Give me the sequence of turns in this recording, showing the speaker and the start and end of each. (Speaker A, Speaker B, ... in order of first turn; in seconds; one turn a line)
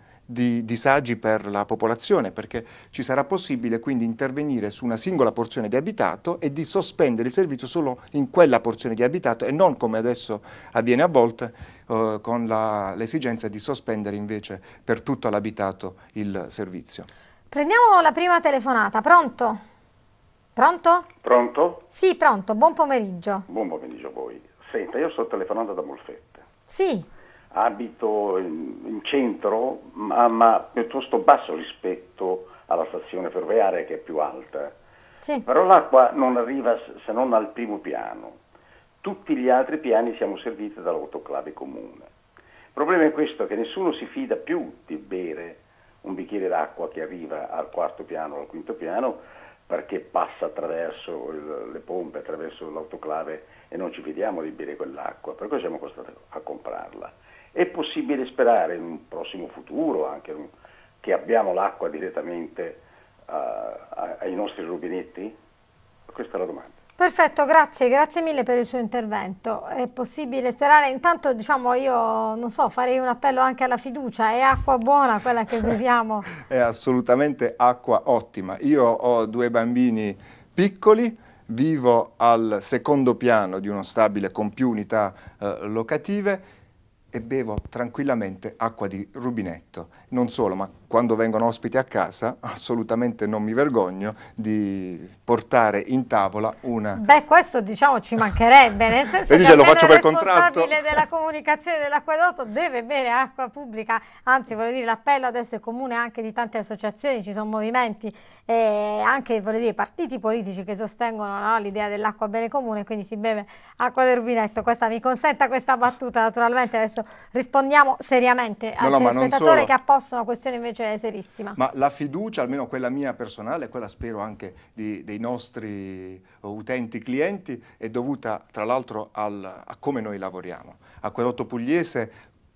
Speaker A: 0.3-17.1
Speaker B: 17.5-19.6
Speaker B: 20.6-21.1
Speaker C: 21.2-21.8
Speaker B: 21.9-23.4
Speaker C: 23.5-26.4
Speaker B: 26.7-27.1
Speaker C: 27.5-34.7
Speaker C: 35.5-38.4
Speaker C: 39.0-42.1
Speaker C: 42.7-65.3
Speaker C: 66.1-66.7
Speaker B: 67.0-76.3
Speaker A: 76.4-86.4
Speaker A: 87.1-97.0
Speaker B: 97.0-121.6
Speaker A: 99.3-101.0
Speaker A: 118.8-119.7
Speaker A: 121.5-132.1